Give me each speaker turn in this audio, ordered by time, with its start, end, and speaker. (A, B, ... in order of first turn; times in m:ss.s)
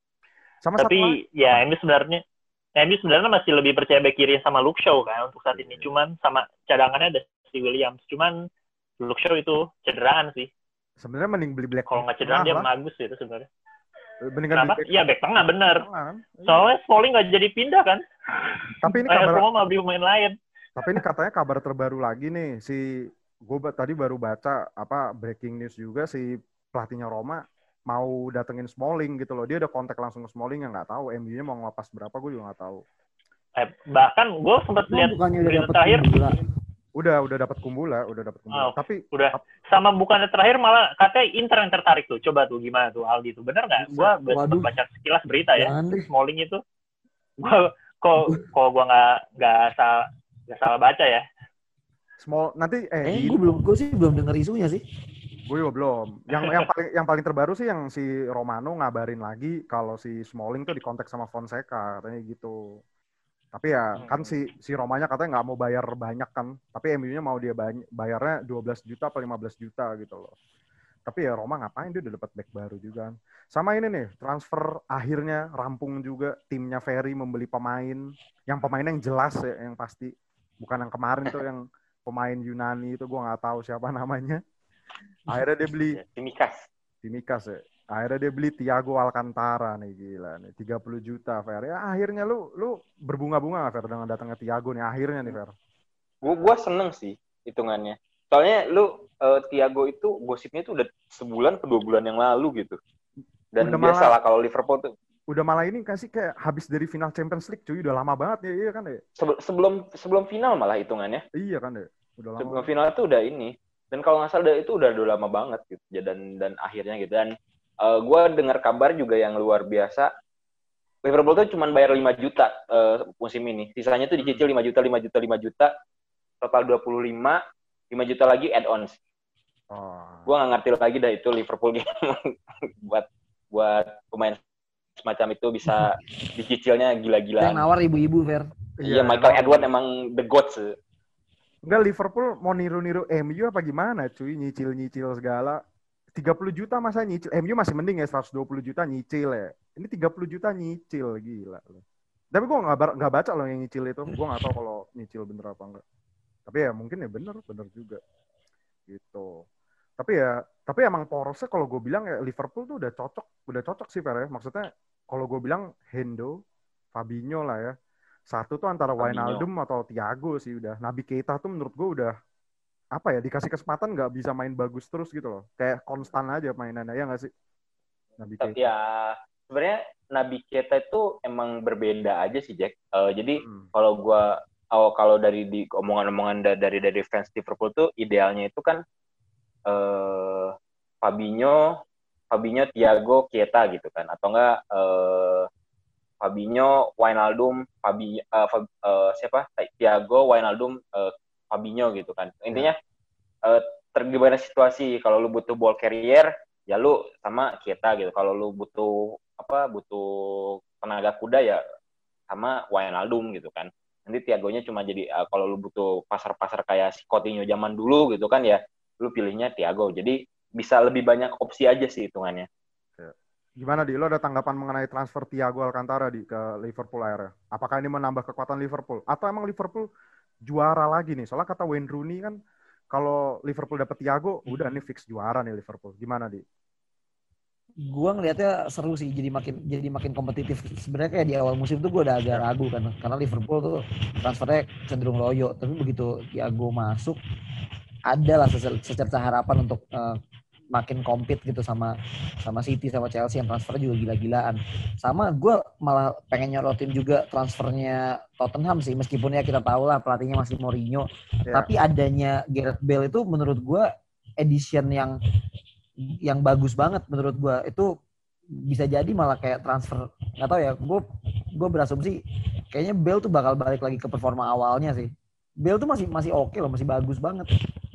0:00.6-0:01.6 A
0:00.8-0:02.2 B
0:02.8-0:08.4 B
0:05.5-0:05.9 A
0:09.0-0:10.5 B
0:11.0-0:12.7 A
0:11.9-0:13.5 B
0:14.2-0:16.7 A
0:14.5-0:15.8 B
0:16.5-0:20.3 B
0:18.8-0:19.4 A
0:20.8-0:22.8 A
0:23.5-0:32.8 A
0:33.6-0:36.0 B
0:34.9-0:36.4 C
0:37.0-0:39.4 A
0:38.5-0:46.6 B
0:43.8-0:44.7 C
0:45.6-0:46.1 C
0:47.4-0:51.2 B
0:52.2-0:53.4 A
0:53.0-0:54.8 C
0:55.4-1:02.8 A
0:56.4-0:56.7 B
1:03.5-1:10.3 A
1:04.0-1:04.4 B
1:11.0-1:24.4 A
1:25.3-1:26.0 A
1:25.9-1:26.7 D
1:27.0-1:35.5 A
1:36.2-1:42.8 D
1:43.5-1:44.9 D
1:43.6-1:44.1 A
1:45.3-1:49.0 A
1:49.2-1:51.2 D
1:51.4-1:52.7 A
1:52.4-2:00.1 D
2:01.0-2:05.7 D
2:06.4-2:09.0 D
2:09.7-2:10.3 A
2:10.3-2:14.4 D
2:15.0-2:17.6 D
2:17.4-2:18.5 C
2:18.8-2:19.7 A
2:18.8-2:20.8 D
2:21.7-2:25.6 A
2:26.2-2:31.8 A
2:32.3-2:35.8 A
2:36.5-2:38.0 A
2:38.9-2:39.4 A
2:40.0-2:46.4 A
2:46.9-2:47.7 A
2:48.3-2:52.1 A
2:49.0-2:49.4 D
2:53.0-2:57.3 A
2:58.2-2:58.7 A
2:58.4-3:08.8 D
3:03.4-3:03.7 A
3:09.7-3:11.7 D
3:12.3-3:15.5 D
3:16.2-3:22.8 D
3:23.4-3:31.6 D
3:32.3-3:42.5 D
3:43.0-3:49.9 A
3:50.5-3:52.4 A
3:52.9-3:56.4 A
3:57.8-4:07.2 C
4:08.1-4:10.2 C
4:10.7-4:23.9 C
4:24.4-4:25.1 C
4:26.2-4:27.9 C
4:28.7-4:31.0 C
4:31.5-4:32.2 C
4:32.7-4:35.1 C
4:35.6-4:37.5 C